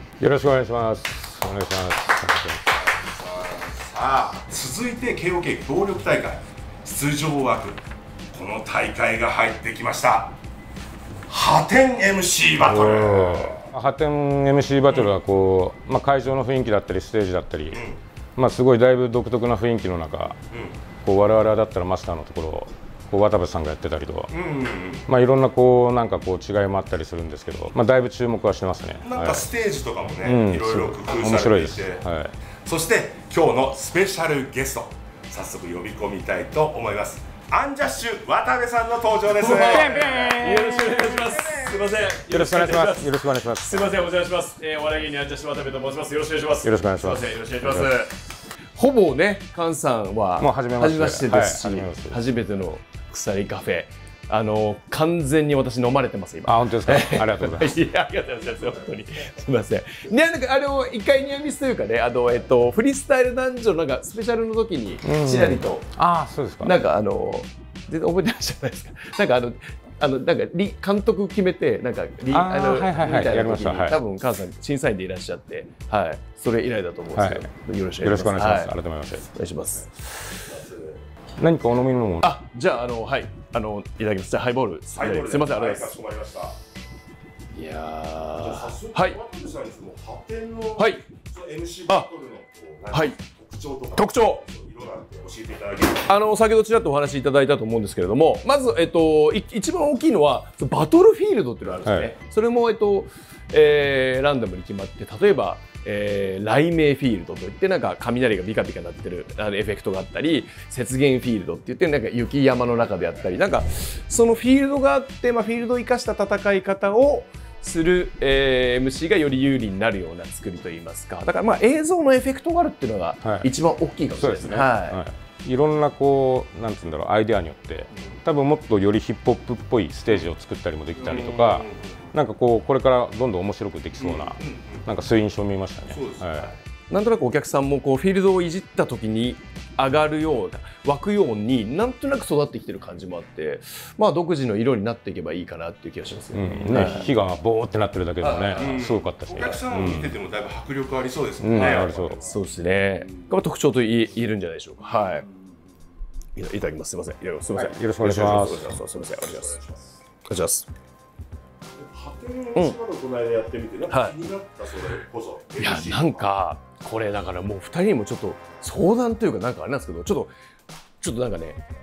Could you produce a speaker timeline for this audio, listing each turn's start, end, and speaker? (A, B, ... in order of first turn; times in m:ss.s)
0:00.2-0:02.8 A
0:02.9-0:07.8 B
0:08.3-0:10.3 B
0:11.3-0:13.6 B
0:12.6-0:20.4 A
0:21.0-0:24.3 A
0:24.4-0:25.0 B
0:25.1-0:29.5 A
0:29.1-0:32.0 B
0:30.2-0:32.3 A
0:32.7-0:40.2 B
0:39.3-0:48.2 C
0:39.6-0:41.8 A
0:42.3-0:44.1 A
0:46.6-0:48.0 A
0:48.8-1:05.9 C
0:50.4-0:52.2 A
0:56.4-0:57.8 A
1:05.0-1:06.8 A
1:06.6-1:20.3 C
1:12.3-1:14.0 A
1:17.2-1:17.5 A
1:18.0-1:19.3 A
1:20.7-1:21.0 B
1:21.4-1:22.3 A
1:22.2-1:26.0 C
1:24.9-1:26.5 B
1:27.5-1:29.2 C
1:28.4-1:36.1 B
1:30.8-1:31.1 C
1:34.0-1:34.4 C
1:36.1-2:05.0 C
1:41.8-1:42.1 A
2:03.2-2:03.5 A
2:04.2-2:16.6 A
2:11.0-2:12.1 B
2:14.0-2:14.8 B
2:15.9-2:16.3 B
2:16.9-2:27.1 C
2:26.3-2:30.2 A
2:28.2-2:28.9 C
2:28.6-2:32.3 B
2:31.4-2:32.2 A
2:31.6-2:35.2 C
2:36.4-2:39.6 C
2:37.6-2:38.8 A
2:39.2-2:39.8 B
2:40.2-2:40.7 C
2:41.8-2:46.2 B
2:43.9-2:44.2 C
2:45.6-2:50.3 C
2:51.0-2:51.6 C